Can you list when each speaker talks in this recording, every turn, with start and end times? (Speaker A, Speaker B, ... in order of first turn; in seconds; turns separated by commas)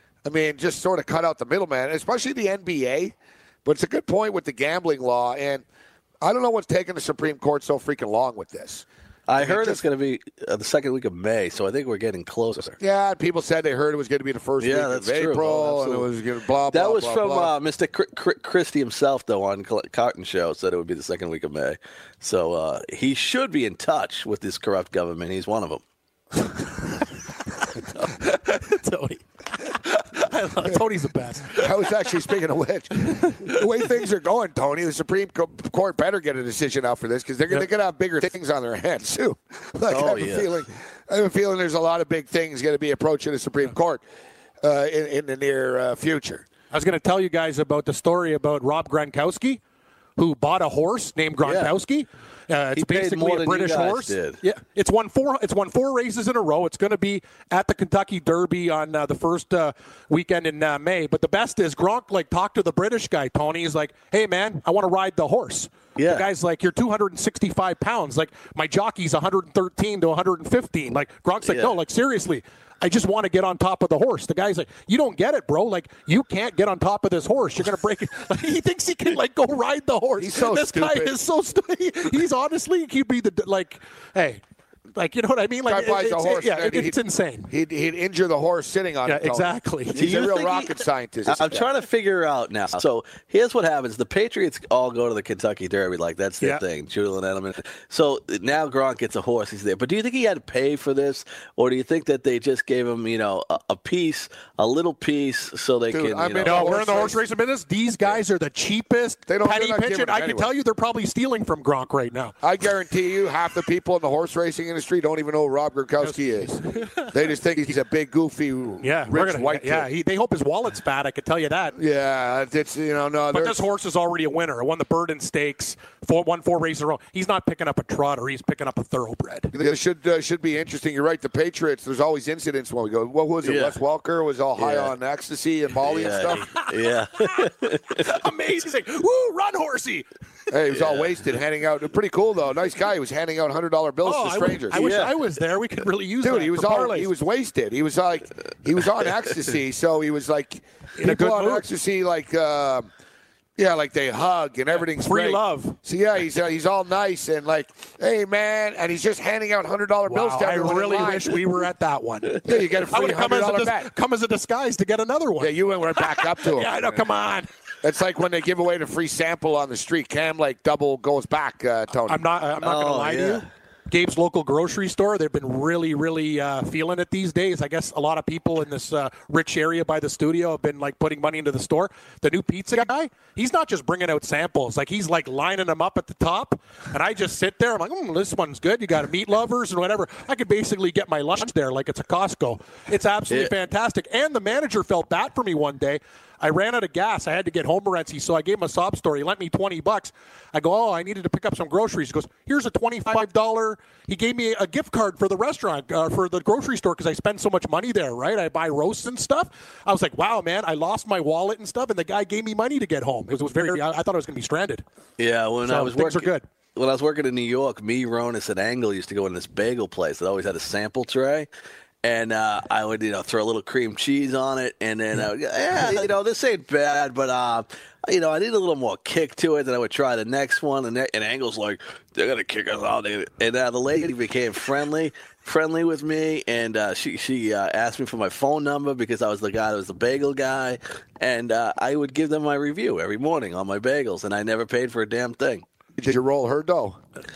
Speaker A: 0.2-5.6, Speaker A: 6.2-8.8, Speaker B: 9.3-12.8, Speaker A: 9.4-9.8, Speaker A: 12.8-17.5, Speaker B: 14.6-16.1, Speaker B: 16.7-25.8, Speaker C: 27.6-31.7, Speaker A: 31.5-44.0, Speaker C: 33.0-33.6, Speaker B: 39.9-40.6, Speaker A: 44.6-46.4, Speaker C: 46.7-49.6, Speaker C: 50.2-84.4, Speaker B: 51.4-51.8, Speaker B: 52.7-54.4, Speaker B: 66.0-66.3, Speaker B: 71.4-71.8, Speaker A: 80.2-81.2, Speaker C: 85.0-87.5, Speaker A: 85.7-91.7, Speaker C: 89.0-90.0, Speaker B: 89.9-107.1, Speaker A: 105.9-107.2, Speaker C: 106.4-112.3, Speaker A: 109.3-110.5, Speaker A: 112.4-119.9, Speaker C: 116.0-117.1, Speaker C: 118.8-121.7, Speaker A: 121.7-123.6, Speaker C: 123.3-129.5, Speaker A: 129.5-136.5, Speaker B: 133.4-133.8, Speaker B: 134.6-134.9, Speaker B: 135.8-138.1, Speaker C: 137.2-140.1, Speaker A: 140.5-145.1, Speaker B: 140.7-141.2, Speaker C: 144.0-147.1, Speaker B: 144.7-145.2, Speaker A: 146.2-152.9, Speaker C: 151.0-151.7, Speaker A: 153.6-161.4, Speaker C: 154.7-155.8, Speaker C: 160.1-167.5, Speaker A: 162.4-163.9, Speaker A: 165.4-167.0, Speaker A: 167.8-172.3, Speaker C: 172.1-214.8, Speaker B: 172.6-173.5, Speaker B: 193.3-193.5, Speaker B: 215.2-221.5, Speaker C: 215.6-216.4, Speaker B: 222.0-245.6, Speaker A: 246.0-247.0